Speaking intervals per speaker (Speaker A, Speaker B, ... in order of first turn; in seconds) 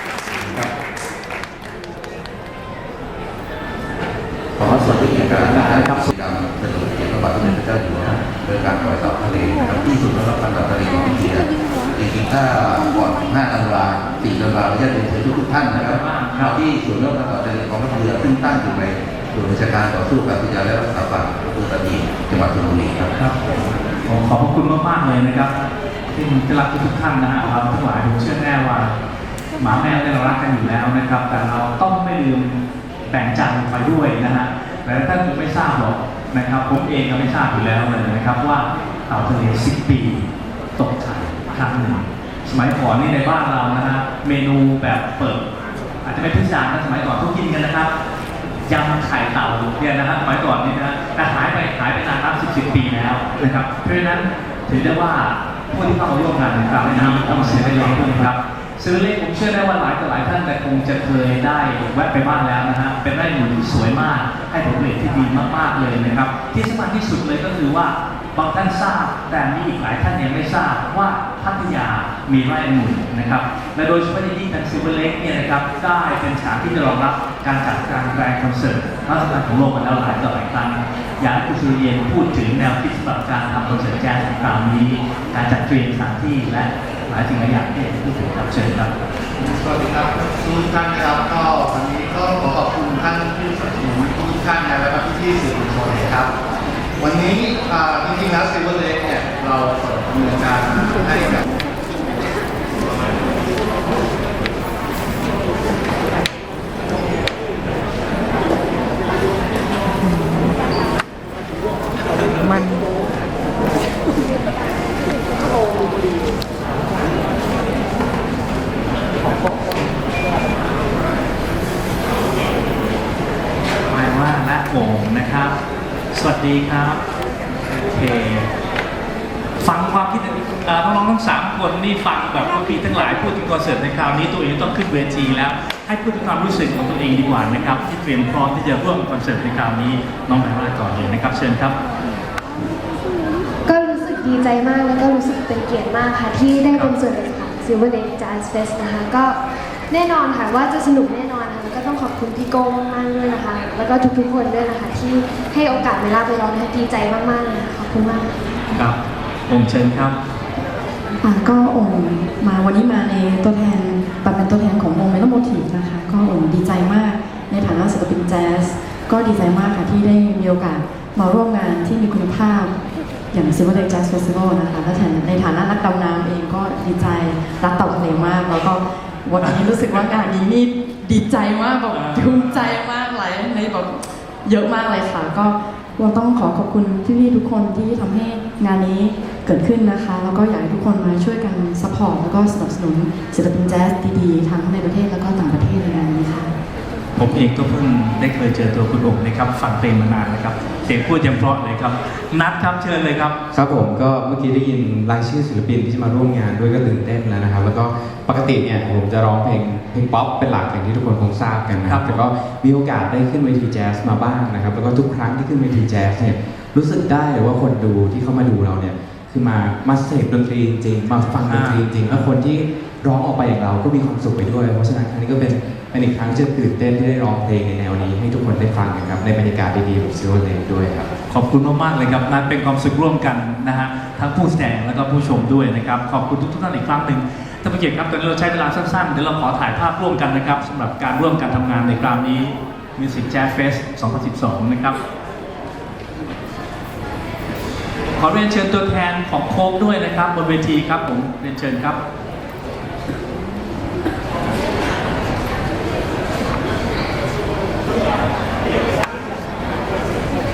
Speaker A: 4.6-23.1
Speaker B: 5.3-6.1, 15.7-16.6, 24.1-25.5, 26.1-29.0, 29.6-45.4, 46.0-47.9, 48.7-88.9, 123.9-125.6, 126.1-127.0, 127.9-128.5, 129.6-141.8, 146.7-147.0, 158.7-159.0, 159.5-160.2, 179.4-180.0, 181.9-182.8, 197.2-203.4, 211.9-212.2, 221.4-222.3, 231.3-245.0, 248.2-252.0
Speaker C: 57.4-57.8, 203.5-231.1
Speaker D: 89.4-96.3, 97.0-101.4
Speaker E: 143.7-158.3
Speaker F: 161.2-172.8, 173.3-196.5